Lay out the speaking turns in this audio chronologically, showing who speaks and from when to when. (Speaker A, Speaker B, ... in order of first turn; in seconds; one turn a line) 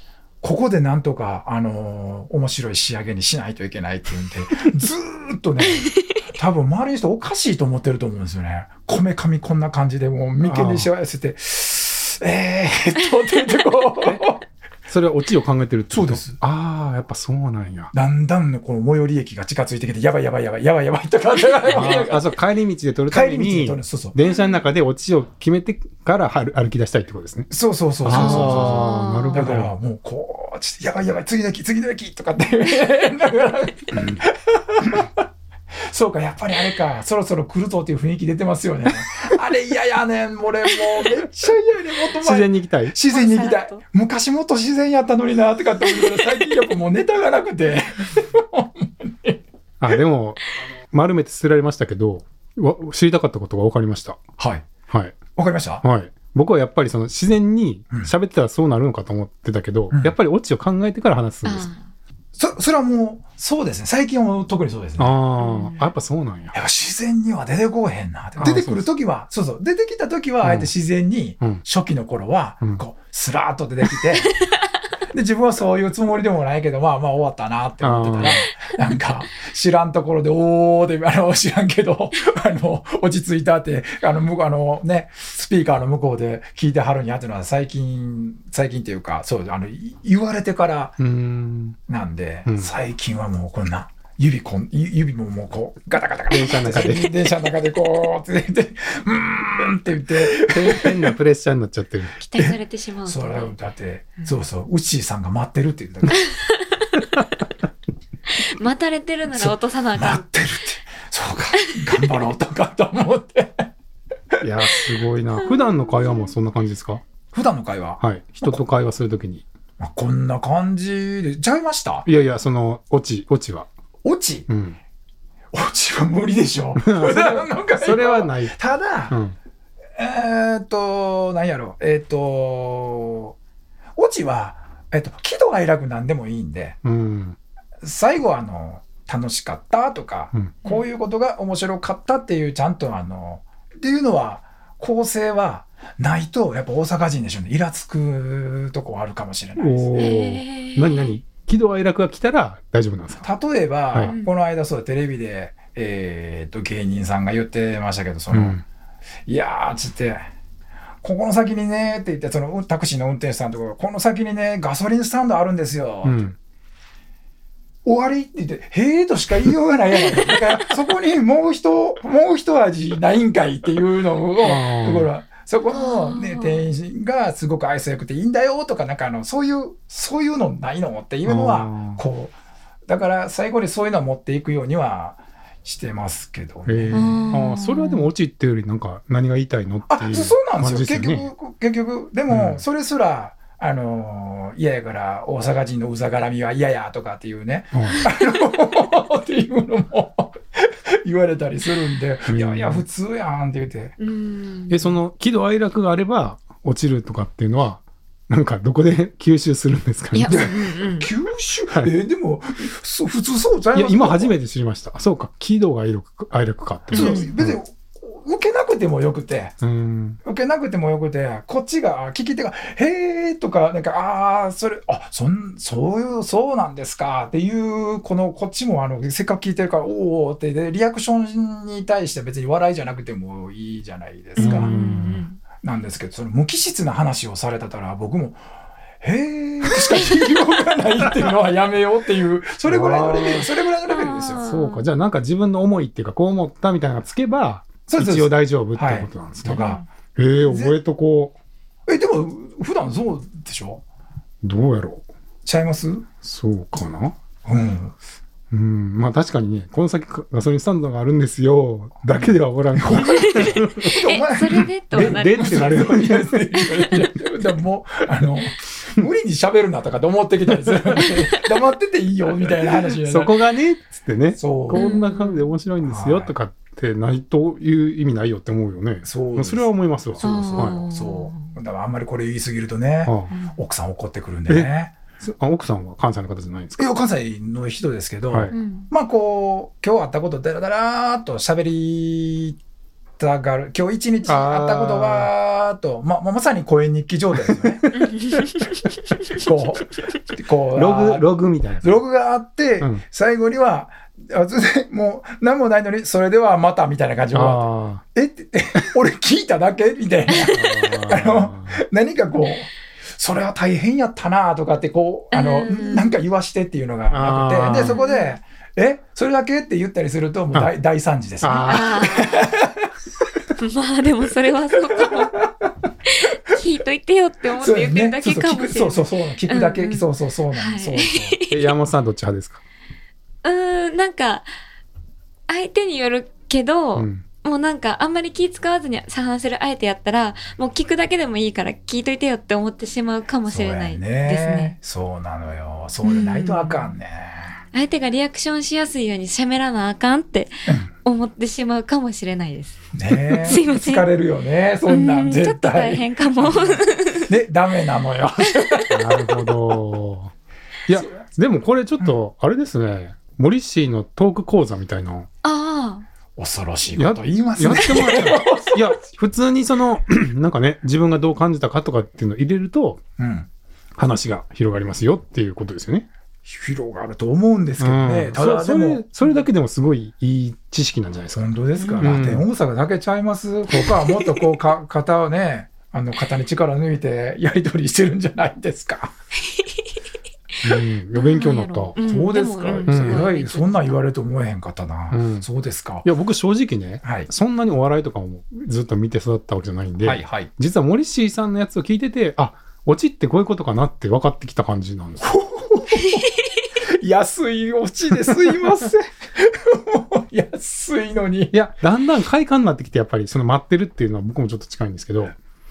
Speaker A: 0.4-14.4
Speaker B: 10.4-10.9
Speaker B: 14.9-17.9
Speaker A: 15.9-16.4
Speaker A: 17.9-22.3
Speaker B: 21.7-27.5
Speaker A: 23.1-24.1
Speaker A: 27.5-49.4
Speaker B: 28.0-29.7
Speaker C: 28.1-29.5
Speaker B: 42.2-42.9
Speaker C: 43.1-43.8
Speaker C: 46.0-46.3
Speaker B: 49.8-54.2
Speaker A: 54.4-54.7
Speaker B: 54.9-55.2
Speaker A: 55.4-55.8
Speaker B: 55.8-61.7
Speaker C: 61.4-61.8
Speaker A: 62.3-65.2
Speaker B: 65.0-66.5
Speaker C: 65.4-65.8
Speaker A: 66.5-74.3
Speaker B: 68.4-68.8
Speaker B: 70.4-70.7
Speaker A: 75.1-91.0
Speaker B: 77.8-78.5
Speaker B: 91.0-91.8
Speaker A: 91.9-101.2
Speaker B: 92.5-92.7
Speaker B: 96.3-97.1
Speaker B: 100.3-102.2
Speaker C: 102.2-103.5
Speaker A: 102.4-106.3
Speaker C: 106.1-107.0
Speaker C: 108.3-110.2
Speaker A: 109.3-113.7
Speaker B: 114.4-117.0
Speaker C: 115.4-116.3
Speaker A: 117.3-118.6
Speaker B: 118.0-119.4
Speaker A: 119.8-122.1
Speaker B: 122.0-123.7
Speaker A: 124.0-124.5
Speaker B: 124.5-124.8
Speaker A: 125.5-129.2
Speaker B: 126.8-128.6
Speaker B: 129.1-129.3
Speaker A: 130.0-133.3
Speaker A: 133.9-136.8
Speaker B: 136.8-137.4
Speaker A: 137.8-149.9
Speaker B: 149.6-153.3
Speaker C: 149.9-151.1
Speaker A: 153.2-158.6
Speaker C: 154.0-154.3
Speaker B: 158.3-158.6
Speaker A: 159.3-160.2
Speaker A: 161.0-166.3
Speaker B: 166.0-166.3
Speaker A: 167.8-182.3
Speaker B: 174.4-175.1
Speaker C: 175.7-176.6
Speaker B: 181.2-182.0
Speaker A: 182.9-187.4
Speaker B: 186.7-191.3
Speaker C: 186.9-188.1
Speaker A: 189.9-203.9
Speaker B: 192.3-192.6
Speaker B: 197.7-198.1
Speaker B: 202.3-202.8
Speaker C: 204.0-204.9
Speaker B: 204.7-210.4
Speaker C: 210.1-211.1
Speaker A: 210.3-214.3
Speaker B: 213.7-217.6
Speaker A: 216.9-219.6
Speaker C: 216.9-217.3
Speaker B: 219.6-220.2
Speaker A: 220.2-234.8
Speaker B: 234.4-235.2
Speaker C: 234.4-235.4
Speaker A: 235.6-238.4
Speaker A: 239.0-244.4
Speaker C: 239.9-240.3
Speaker B: 242.7-243.5
Speaker C: 243.8-244.8
Speaker B: 244.4-249.6
Speaker A: 247.9-249.8
Speaker C: 249.5-249.8
Speaker B: 250.2-251.3
Speaker A: 250.4-250.7
Speaker A: 251.9-253.8
Speaker B: 254.4-255.1
Speaker A: 255.4-256.1
Speaker B: 256.2-257.1
Speaker A: 257.4-257.9
Speaker B: 258.5-263.9
Speaker A: 262.1-273.4
Speaker C: 263.0-265.7
Speaker B: 264.9-266.6
Speaker C: 266.6-267.1
Speaker B: 273.0-280.8
Speaker A: 274.4-274.9
Speaker C: 274.7-275.5
Speaker A: 275.8-276.3
Speaker A: 279.0-284.9
Speaker C: 280.2-281.5
Speaker B: 283.0-283.3
Speaker C: 283.3-283.6
Speaker B: 284.5-286.9
Speaker A: 286.8-292.6
Speaker C: 288.5-288.9
Speaker A: 293.2-298.1
Speaker B: 294.2-295.3
Speaker C: 297.9-298.9
Speaker A: 299.3-301.3
Speaker B: 300.7-302.0
Speaker A: 301.8-322.9
Speaker B: 307.3-308.0
Speaker C: 310.3-310.6
Speaker B: 310.5-311.8
Speaker C: 315.3-316.2
Speaker B: 317.1-318.0
Speaker C: 317.7-318.4
Speaker B: 321.4-322.2
Speaker C: 321.5-322.5
Speaker C: 323.6-325.4
Speaker A: 324.8-325.5
Speaker C: 326.1-331.7
Speaker A: 327.6-331.4
Speaker B: 331.5-332.6
Speaker C: 333.4-334.5
Speaker C: 335.5-344.7
Speaker B: 336.9-337.2
Speaker A: 343.4-347.6
Speaker C: 346.0-346.9
Speaker C: 347.7-350.5
Speaker C: 351.0-354.1
Speaker A: 352.9-359.3
Speaker C: 354.9-357.3
Speaker B: 358.9-360.3
Speaker B: 360.9-365.3
Speaker C: 365.4-366.1
Speaker A: 366.4-368.9
Speaker B: 366.9-373.0
Speaker A: 373.2-373.5
Speaker B: 374.0-376.1
Speaker A: 376.4-379.0
Speaker B: 377.8-382.5
Speaker A: 381.3-389.1
Speaker C: 381.8-382.1
Speaker C: 383.7-384.4
Speaker B: 390.6-391.9
Speaker C: 390.7-393.9
Speaker A: 392.0-396.1
Speaker B: 392.9-393.3
Speaker B: 395.1-395.4
Speaker B: 396.0-405.3
Speaker A: 397.0-397.3
Speaker A: 400.0-400.5
Speaker A: 405.2-411.6
Speaker B: 411.5-415.4